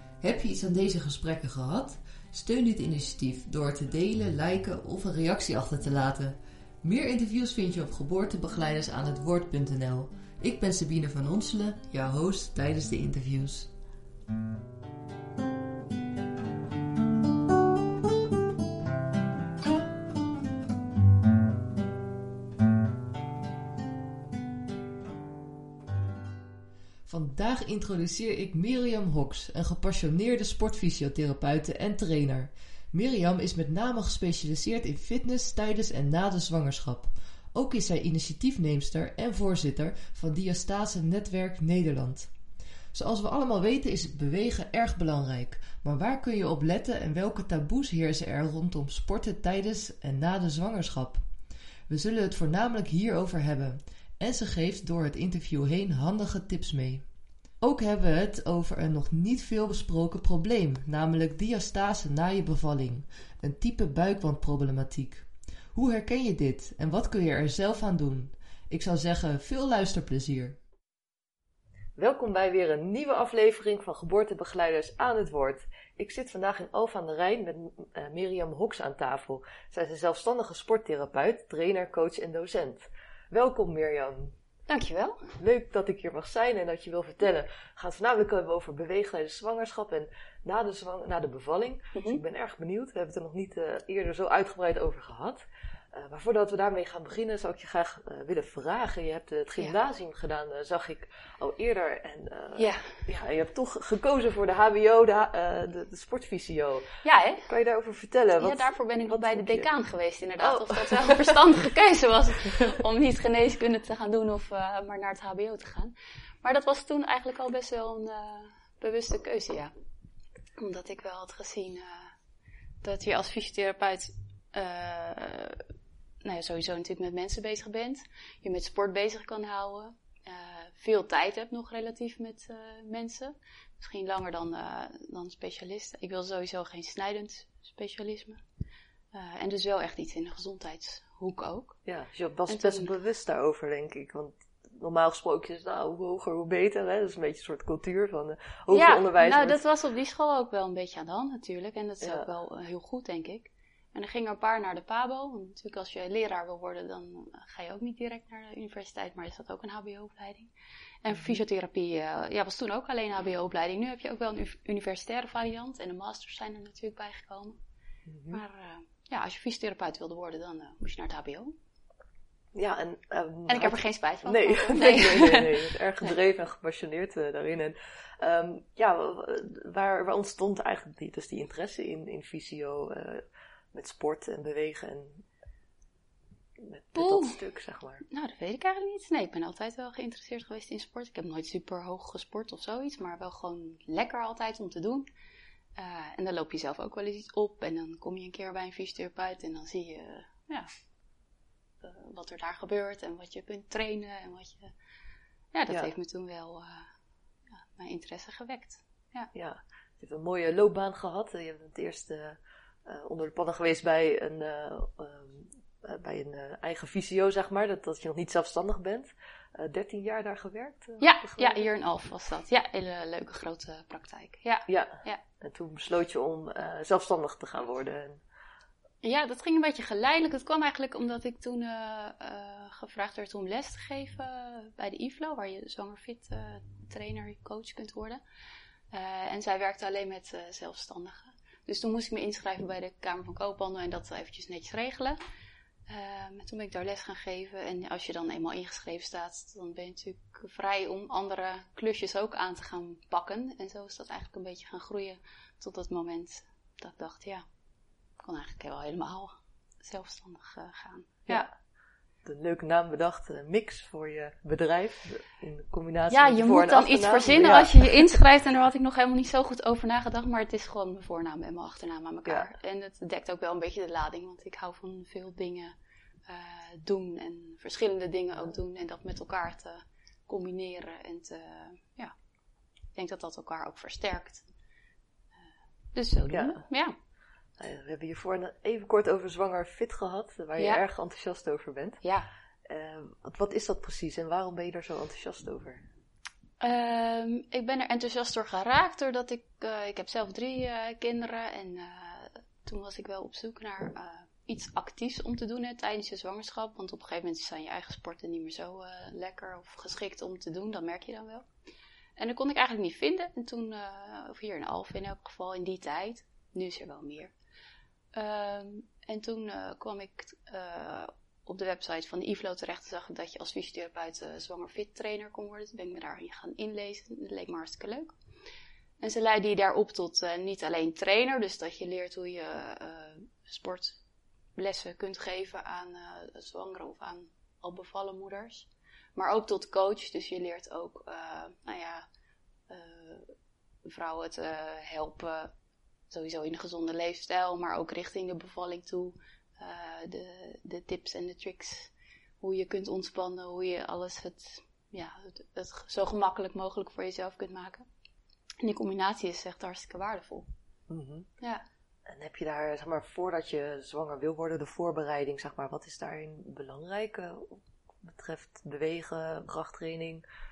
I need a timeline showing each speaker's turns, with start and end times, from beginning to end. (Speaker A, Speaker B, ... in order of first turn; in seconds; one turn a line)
Speaker A: 0.2-13.7
Speaker A: 27.1-42.3
Speaker A: 42.9-51.2
Speaker A: 51.9-57.1
Speaker A: 57.6-70.6
Speaker A: 72.0-84.3
Speaker B: 84.7-85.2
Speaker A: 85.4-106.9
Speaker B: 91.9-92.2
Speaker B: 102.6-103.0
Speaker B: 107.0-107.5
Speaker A: 107.5-109.7
Speaker B: 108.4-119.7
Speaker A: 110.4-111.5
Speaker B: 120.6-122.1
Speaker B: 122.8-125.6
Speaker B: 126.2-138.4
Speaker B: 139.1-141.8
Speaker A: 141.8-149.6
Speaker B: 142.5-142.9
Speaker B: 148.7-160.5
Speaker A: 152.0-152.3
Speaker B: 161.0-167.6
Speaker A: 161.1-161.4
Speaker A: 168.1-168.4
Speaker B: 168.3-171.5
Speaker A: 172.5-185.2
Speaker B: 173.5-176.1
Speaker A: 186.6-188.0
Speaker B: 186.9-187.4
Speaker B: 188.1-195.1
Speaker B: 195.8-200.7
Speaker B: 201.8-204.7
Speaker B: 205.5-206.9
Speaker B: 207.5-209.3
Speaker A: 209.3-221.7
Speaker B: 221.0-225.2
Speaker A: 224.7-228.2
Speaker B: 229.0-238.2
Speaker B: 238.9-245.2
Speaker B: 245.9-257.4
Speaker B: 258.2-261.5
Speaker A: 262.2-268.2
Speaker B: 266.1-275.7
Speaker B: 276.3-282.1
Speaker B: 282.9-284.5
Speaker B: 285.9-286.9
Speaker A: 286.3-286.6
Speaker A: 287.6-292.0
Speaker B: 292.0-292.3
Speaker A: 292.6-295.8
Speaker B: 296.6-311.5
Speaker B: 312.2-317.3
Speaker B: 318.1-328.1
Speaker B: 329.0-334.0
Speaker B: 334.6-342.0
Speaker B: 342.7-343.3
Speaker B: 343.8-345.5
Speaker B: 346.1-357.8
Speaker B: 358.6-360.5
Speaker A: 360.9-361.3
Speaker A: 362.0-370.2